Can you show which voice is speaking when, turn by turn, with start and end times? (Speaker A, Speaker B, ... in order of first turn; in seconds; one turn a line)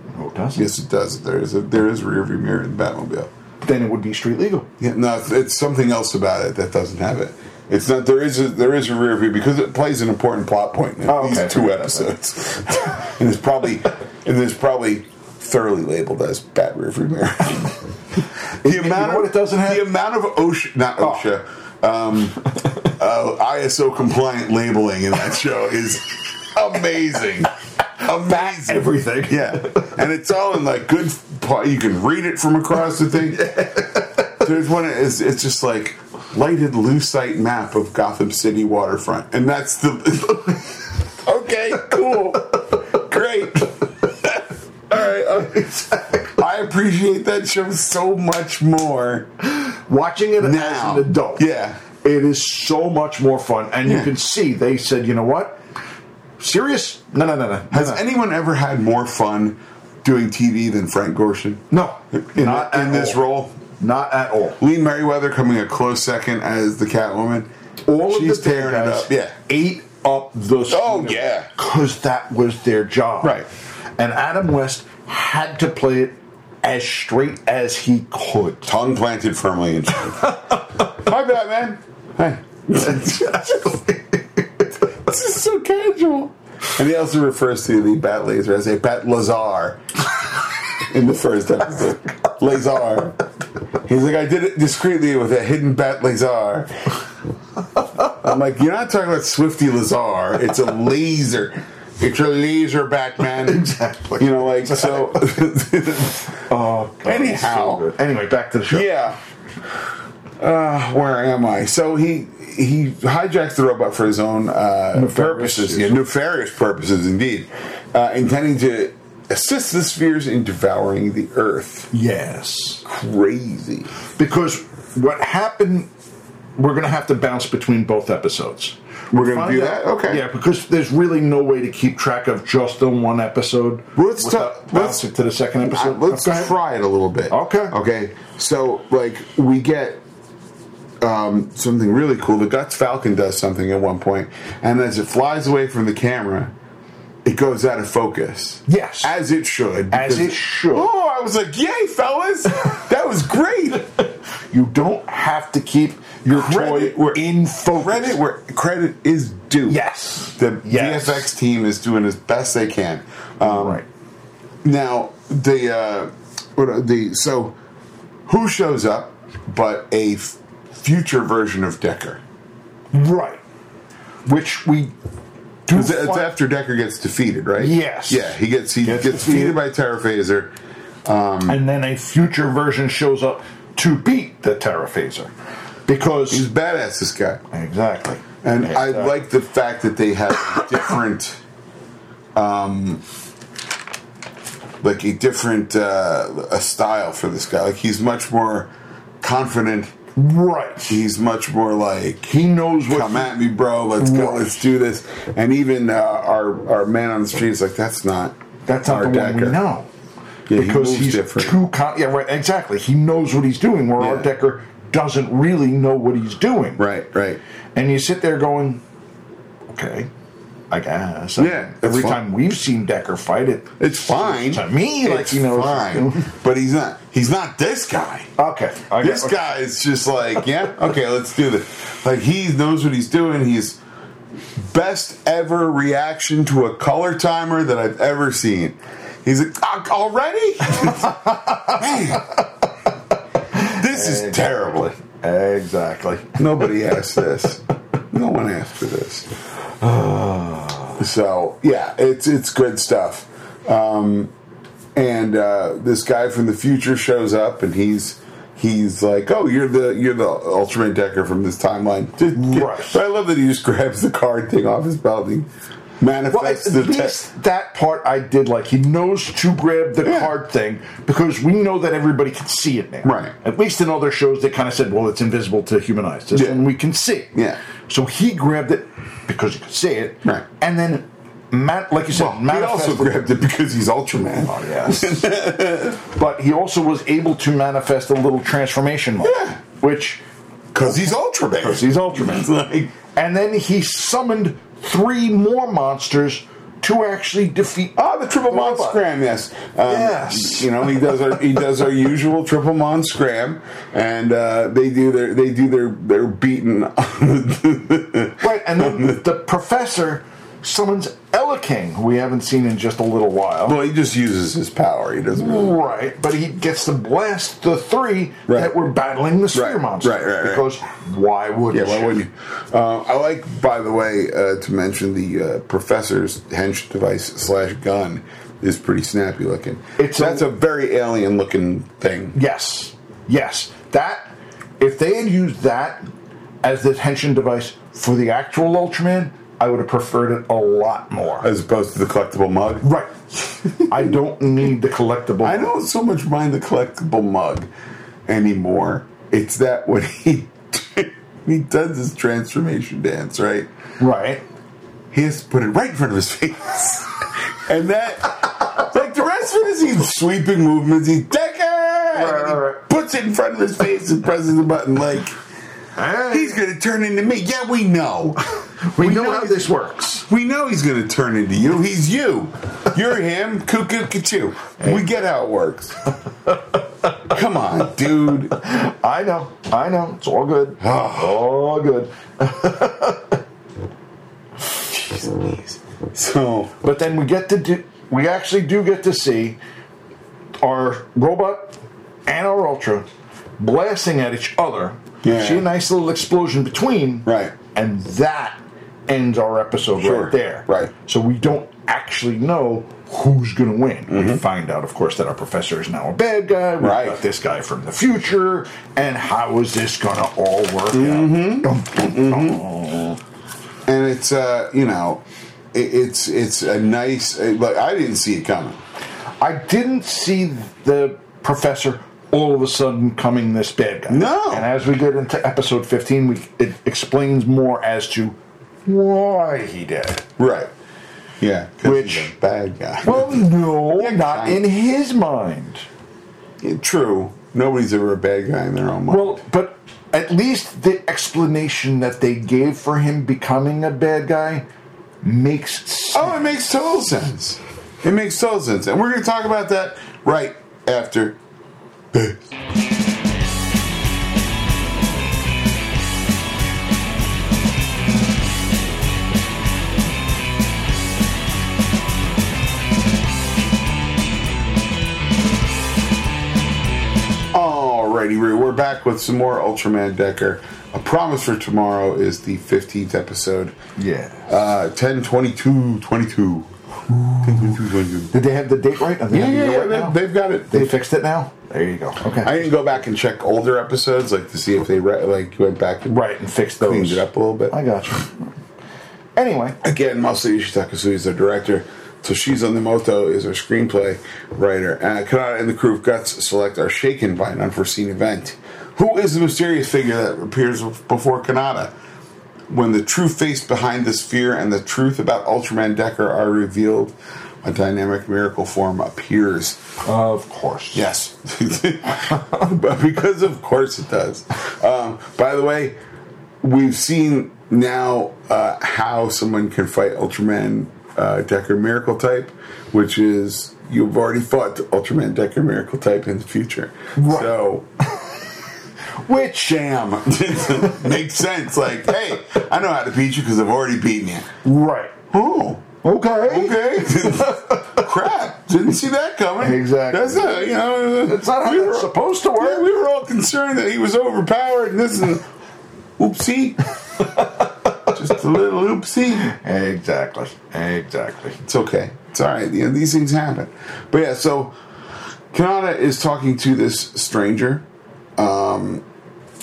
Speaker A: 0.1-0.7
Speaker B: 0.6-3.3
Speaker A: 3.6-4.7
Speaker B: 4.8-17.8
Speaker A: 11.1-12.2
Speaker B: 18.6-45.7
Speaker A: 18.6-19.9
Speaker A: 28.1-29.9
Speaker A: 33.6-34.0
Speaker A: 45.5-46.2
Speaker B: 46.3-49.3
Speaker A: 49.5-51.5
Speaker B: 50.4-51.8
Speaker A: 52.0-55.6
Speaker B: 53.9-54.1
Speaker A: 56.4-58.0
Speaker B: 57.7-63.6
Speaker A: 61.7-63.2
Speaker A: 63.8-64.6
Speaker B: 64.6-67.5
Speaker A: 67.9-73.5
Speaker B: 68.0-69.3
Speaker B: 70.7-71.5
Speaker B: 73.2-73.5
Speaker A: 74.0-78.7
Speaker B: 78.7-83.8
Speaker A: 83.2-84.2
Speaker B: 84.9-89.8
Speaker B: 90.8-93.2
Speaker B: 93.8-96.8
Speaker B: 98.0-106.3
Speaker A: 103.4-105.4
Speaker A: 106.5-108.9
Speaker B: 107.0-107.9
Speaker B: 108.7-109.2
Speaker B: 110.4-121.9
Speaker A: 114.9-116.0
Speaker A: 121.9-122.8
Speaker B: 122.8-123.9
Speaker A: 124.2-125.9
Speaker A: 126.6-136.6
Speaker B: 129.1-130.3
Speaker B: 133.9-135.1
Speaker B: 135.6-140.0
Speaker A: 137.3-137.8
Speaker B: 141.0-146.5
Speaker B: 147.2-153.9
Speaker A: 148.7-149.2
Speaker A: 149.9-150.9
Speaker A: 154.5-158.2
Speaker B: 156.3-159.8
Speaker A: 159.7-161.3
Speaker B: 160.4-163.8
Speaker A: 163.4-163.8
Speaker B: 164.6-167.6
Speaker B: 168.3-172.2
Speaker A: 172.9-173.4
Speaker A: 174.3-174.9
Speaker A: 175.7-176.3
Speaker B: 175.7-181.6
Speaker A: 177.6-179.6
Speaker A: 181.5-185.3
Speaker A: 185.9-186.5
Speaker B: 186.3-187.4
Speaker A: 187.5-189.2
Speaker B: 188.4-191.4
Speaker B: 192.3-193.0
Speaker B: 194.8-199.9
Speaker A: 200.2-201.1
Speaker B: 200.9-209.6
Speaker A: 202.3-203.4
Speaker A: 204.0-204.6
Speaker A: 208.7-209.9
Speaker B: 210.5-211.6
Speaker A: 210.5-216.8
Speaker B: 214.0-214.3
Speaker B: 216.8-217.4
Speaker A: 217.8-218.8
Speaker A: 219.7-220.1
Speaker A: 220.7-226.3
Speaker B: 221.4-222.2
Speaker B: 223.8-228.3
Speaker A: 228.4-229.4
Speaker B: 229.0-233.8
Speaker B: 234.6-242.3
Speaker A: 240.8-242.2
Speaker A: 243.6-246.4
Speaker B: 243.6-244.9
Speaker B: 246.4-249.3
Speaker A: 249.8-251.0
Speaker B: 251.0-254.3
Speaker B: 254.9-265.5
Speaker A: 262.3-263.0
Speaker B: 266.0-267.2
Speaker A: 266.3-283.2
Speaker B: 270.0-270.3
Speaker B: 273.0-273.3
Speaker B: 276.3-276.6
Speaker B: 282.1-286.0
Speaker A: 284.4-285.3
Speaker A: 286.1-290.2
Speaker B: 289.2-289.6
Speaker B: 290.7-292.9
Speaker A: 291.6-292.5
Speaker A: 293.0-299.0
Speaker B: 298.0-309.2
Speaker A: 299.8-301.2
Speaker A: 308.4-313.8
Speaker B: 313.7-315.9
Speaker A: 315.4-322.2
Speaker B: 318.5-318.7
Speaker B: 319.5-320.7
Speaker B: 321.7-332.4
Speaker A: 330.0-330.5
Speaker A: 332.3-336.1
Speaker A: 336.6-341.5
Speaker B: 341.4-342.9
Speaker A: 342.8-345.7
Speaker B: 343.9-344.2
Speaker B: 345.4-347.7
Speaker B: 348.3-353.7
Speaker A: 354.0-354.4
Speaker B: 355.1-365.4
Speaker A: 362.1-362.8
Speaker A: 366.0-366.6
Speaker B: 366.3-368.4
Speaker A: 368.9-370.3
Speaker B: 369.0-369.7
Speaker B: 370.3-376.0
Speaker B: 377.2-378.6
Speaker A: 378.5-383.4
Speaker B: 380.8-381.4
Speaker B: 384.9-386.8
Speaker A: 386.8-389.6
Speaker A: 390.6-393.1
Speaker A: 393.6-413.2
Speaker B: 395.2-395.7
Speaker B: 397.3-397.6
Speaker B: 400.0-400.9
Speaker B: 404.1-404.4
Speaker B: 406.8-407.2
Speaker B: 410.9-412.6
Speaker B: 413.9-418.8
Speaker A: 419.4-430.3
Speaker B: 424.1-424.7
Speaker B: 430.4-430.7
Speaker B: 431.4-434.6
Speaker A: 431.8-432.3
Speaker A: 433.0-435.9
Speaker B: 436.6-439.4
Speaker A: 439.1-444.7
Speaker A: 445.2-446.5
Speaker B: 446.1-451.4
Speaker B: 452.1-452.4
Speaker B: 467.5-473.8
Speaker A: 474.0-474.5
Speaker B: 474.5-476.7
Speaker A: 477.1-477.8
Speaker B: 477.4-478.3
Speaker A: 478.3-482.7
Speaker B: 479.3-481.0
Speaker B: 482.4-486.2
Speaker A: 486.1-488.6
Speaker B: 486.8-487.8
Speaker A: 489.4-489.8
Speaker B: 489.8-501.9
Speaker B: 502.7-509.8
Speaker A: 510.0-511.1
Speaker B: 510.9-516.0
Speaker B: 516.6-527.9
Speaker A: 527.2-527.6
Speaker A: 529.2-529.9
Speaker B: 529.6-534.5
Speaker A: 530.8-531.2
Speaker A: 534.6-535.2
Speaker B: 535.3-535.9
Speaker A: 536.0-538.0
Speaker B: 536.5-545.5
Speaker A: 539.6-542.9
Speaker B: 546.2-547.3
Speaker B: 548.1-549.5
Speaker A: 549.4-551.6
Speaker B: 551.6-554.8
Speaker B: 555.5-557.9
Speaker B: 558.4-559.0